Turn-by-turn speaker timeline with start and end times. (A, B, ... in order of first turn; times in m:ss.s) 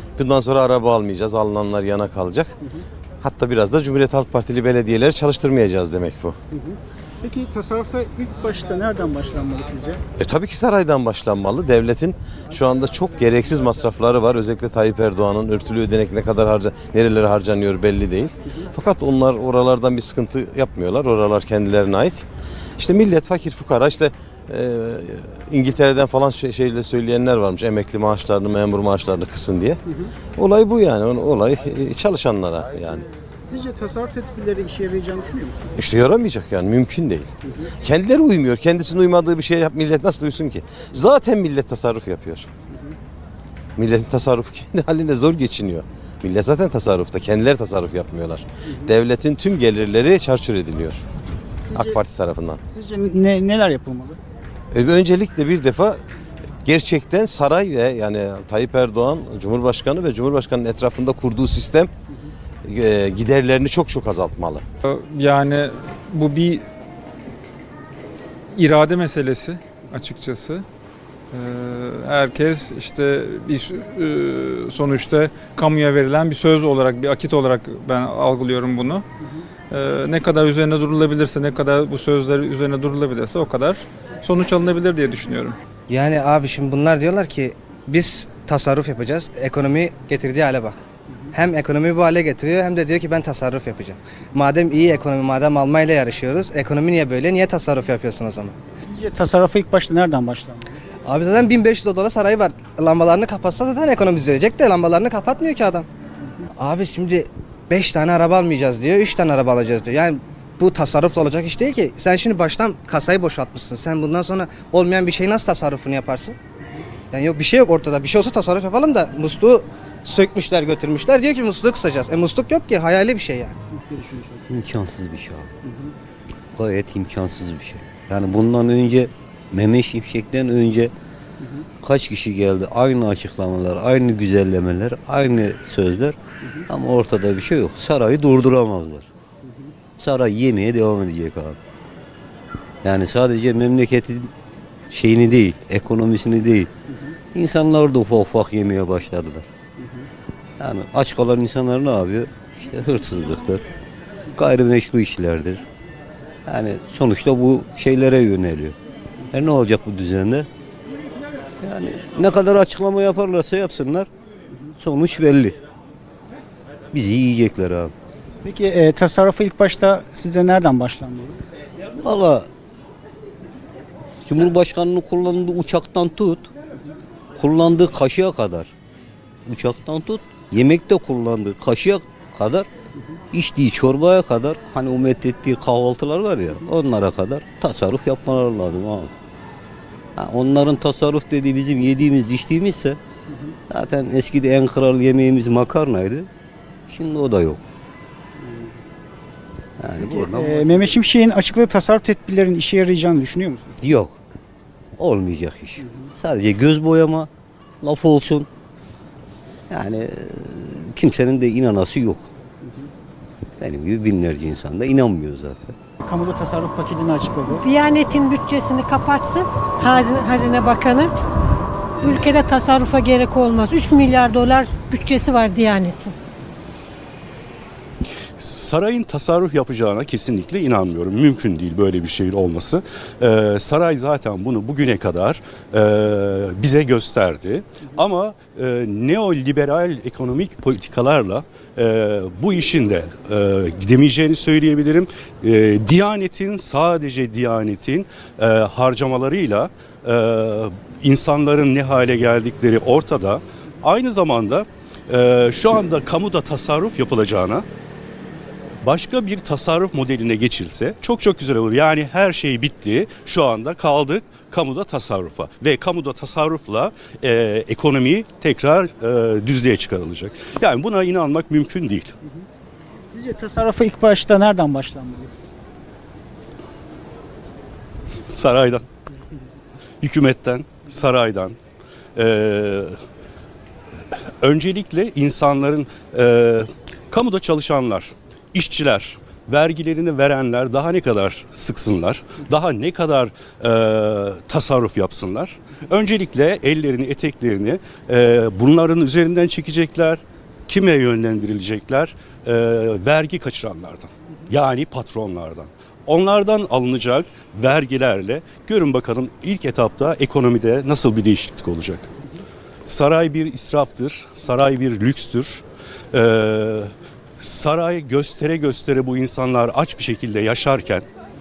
0:00.2-0:02.6 A
0:03.2-0:06.4 A
0:07.2-0:10.0 B
0:10.2-0:22.2 A
0:22.8-0:29.8 A
0:30.4-0:33.0 A
0:33.5-0:35.6 B
0:35.8-0:42.5 A
0:43.8-0:51.0 A
0:51.7-0:52.6 A
0:52.7-0:54.2 B
0:54.7-0:56.0 A
0:56.6-1:01.9 A
1:02.6-1:04.6 A
1:04.8-1:06.6 C
1:08.5-1:10.6 C
1:11.3-1:19.0 C
1:19.7-1:25.6 C
1:25.9-1:30.8 D
1:31.3-1:38.6 D
1:38.9-1:40.7 B
1:41.0-1:45.9 D
1:46.6-1:56.4 D
1:57.1-2:03.6 D
2:03.9-2:04.3 B
2:04.5-2:05.5 E
2:06.5-2:10.9 E
2:11.8-2:19.1 E
2:20.0-2:21.6 E
2:22.8-2:24.3 E
2:24.9-2:26.7 E
2:27.3-2:29.5 E
2:30.6-2:33.6 E
2:34.3-2:35.6 E
2:36.4-2:38.8 E
2:39.3-2:40.5 E
2:41.6-2:44.1 E
2:44.8-2:45.6 E
2:46.9-2:47.9 E
2:48.4-2:51.4 B
2:52.0-2:52.5 E
2:54.2-2:56.5 E
2:57.4-2:58.7 E
2:59.4-3:02.7 E
3:03.3-3:09.1 E
3:10.2-3:13.0 E
3:13.7-3:16.3 E
3:16.9-3:17.6 E
3:19.8-3:21.1 E
3:20.4-3:23.7 B
3:23.8-3:24.2 E
3:25.0-3:27.3 E
3:27.8-3:28.5 E
3:29.7-3:32.3 E
3:33.6-3:35.8 E
3:36.0-3:37.6 B
3:37.6-3:41.0 F
3:42.0-3:46.0 F
3:48.4-4:17.6 G
4:18.8-4:32.1 G
4:33.1-4:35.3 B
4:38.3-4:38.8 G
4:40.0-4:41.6 G
4:42.2-4:43.0 G
4:44.4-5:12.1 G
5:12.8-5:21.0 G